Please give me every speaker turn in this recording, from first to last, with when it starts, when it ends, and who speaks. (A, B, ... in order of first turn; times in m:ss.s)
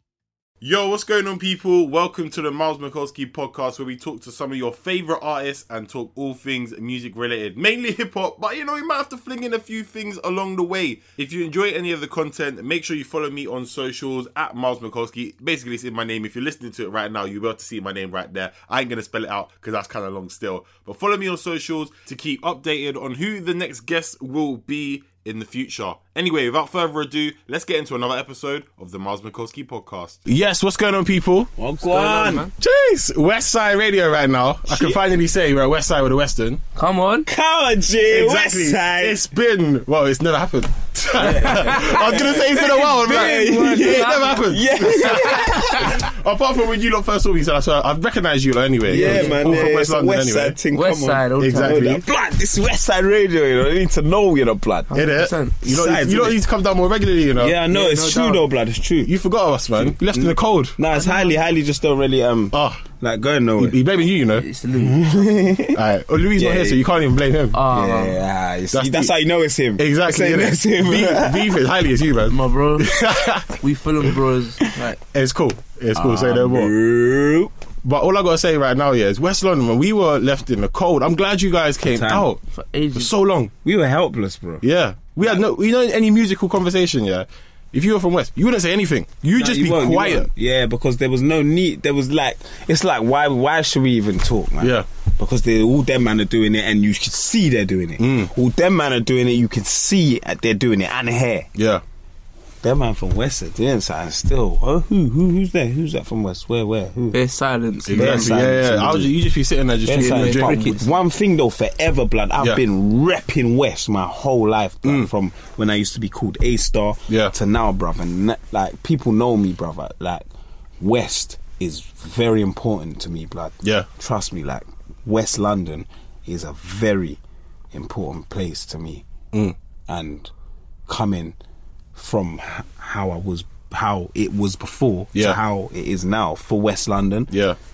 0:00.6-0:31.5 A
0:31.6-0:32.5 B
0:31.9-0:32.5 C
0:32.6-0:36.6 A
0:36.8-0:37.3 C
0:37.3-0:39.2 B
0:38.0-0:50.6 A
0:41.2-0:46.0 B
0:41.3-0:45.6 C
0:48.9-0:49.8 C
0:48.9-0:55.0 B
0:50.7-0:52.0 C
0:51.4-0:52.0 A
0:54.9-0:55.6 C
0:55.0-0:57.6 A
0:55.6-0:56.4 B
0:57.4-0:59.1 B
0:57.7-0:58.5 C
0:59.0-1:00.8 A
0:59.8-1:03.8 B
1:02.5-1:02.8 A
1:03.6-1:04.5 A
1:04.4-1:05.1 C
1:04.8-1:05.8 B
1:05.7-1:07.6 A
1:06.4-1:06.8 B
1:07.5-1:08.2 C
1:07.7-1:11.5 B
1:08.7-1:09.1 A
1:09.8-1:13.6 A
1:12.3-1:12.9 C
1:13.6-1:15.0 C
1:15.1-1:16.8 A
1:16.0-1:17.5 B
1:17.8-1:22.4 A
1:21.8-1:22.3 B
1:22.5-1:23.1 C
1:23.0-1:23.5 A
1:23.6-1:24.6 B
1:24.6-1:30.3 A
1:29.4-1:41.5 B
1:34.6-1:34.9 A
1:38.0-1:38.3 A
1:41.6-1:41.8 A
1:42.6-1:47.2 B
1:47.1-1:48.4 C
1:47.9-1:50.8 A
1:47.9-1:49.1 B
1:49.9-2:00.3 B
1:50.0-1:50.9 C
2:00.8-2:07.2 B
2:07.7-2:09.0 B
2:09.9-2:10.3 B
2:10.9-2:11.4 B
2:12.0-2:17.3 B
2:17.3-2:17.6 A